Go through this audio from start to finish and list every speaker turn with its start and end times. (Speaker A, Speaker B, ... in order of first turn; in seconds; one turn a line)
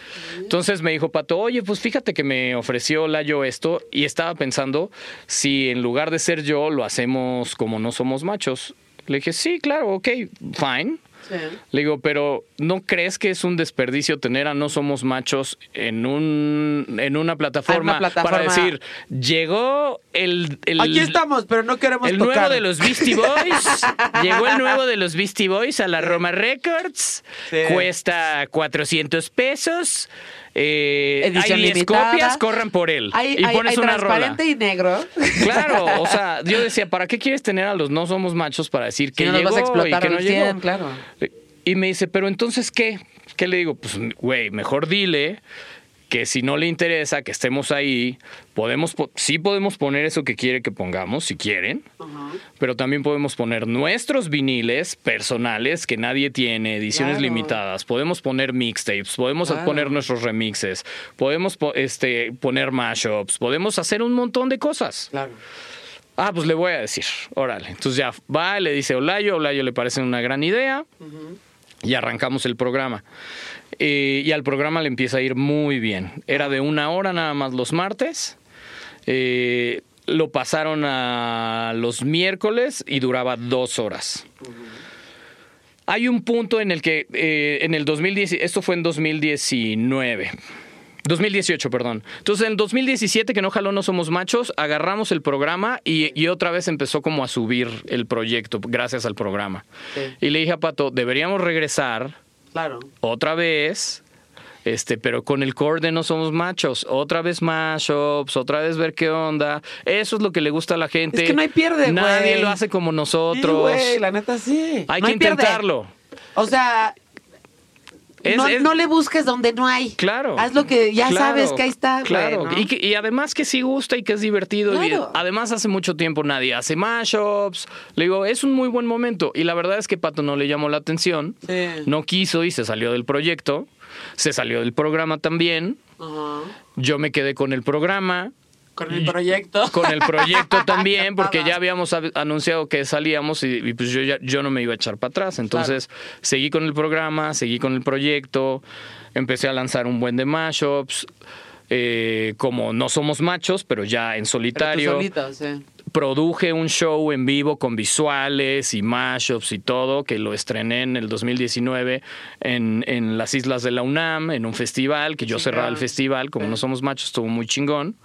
Speaker A: 0.5-11.0
Speaker B: 11.3-11.6
Speaker A: 11.7-21.2
Speaker B: 17.7-18.7
Speaker B: 20.8-24.8
Speaker A: 22.0-34.4
Speaker B: 27.5-27.9
Speaker B: 31.2-32.4
Speaker B: 33.1-36.1
Speaker A: 35.4-40.6
Speaker B: 39.2-41.0
Speaker A: 41.2-45.4
Speaker A: 46.1-51.8
Speaker B: 52.0-52.4
Speaker A: 52.6-65.1
Speaker B: 56.9-57.5
Speaker B: 59.4-60.0
Speaker B: 65.1-65.4
Speaker A: 66.2-70.8
Speaker B: 71.0-71.4
Speaker A: 71.8-73.0
Speaker A: 73.8-78.3
Speaker A: 79.0-84.3
Speaker B: 84.4-84.7
Speaker A: 85.9-90.3
Speaker A: 91.0-99.6
Speaker A: 100.2-102.2
Speaker B: 102.5-102.9
Speaker A: 103.0-104.0
Speaker A: 104.6-114.0
Speaker B: 111.1-112.6
Speaker B: 113.3-115.6
Speaker A: 114.9-115.9
Speaker B: 116.3-117.0
Speaker A: 118.2-118.7
Speaker B: 118.2-122.7
Speaker A: 120.0-120.5
Speaker A: 121.0-135.8
Speaker B: 124.7-125.2
Speaker B: 131.4-131.9
Speaker B: 136.0-136.5
Speaker A: 136.8-138.3
Speaker B: 138.8-141.5
Speaker A: 138.9-139.2
Speaker A: 139.7-148.6
Speaker A: 149.1-151.1
Speaker A: 151.7-155.1
Speaker B: 154.5-155.6
Speaker A: 155.9-167.9
Speaker B: 165.2-166.6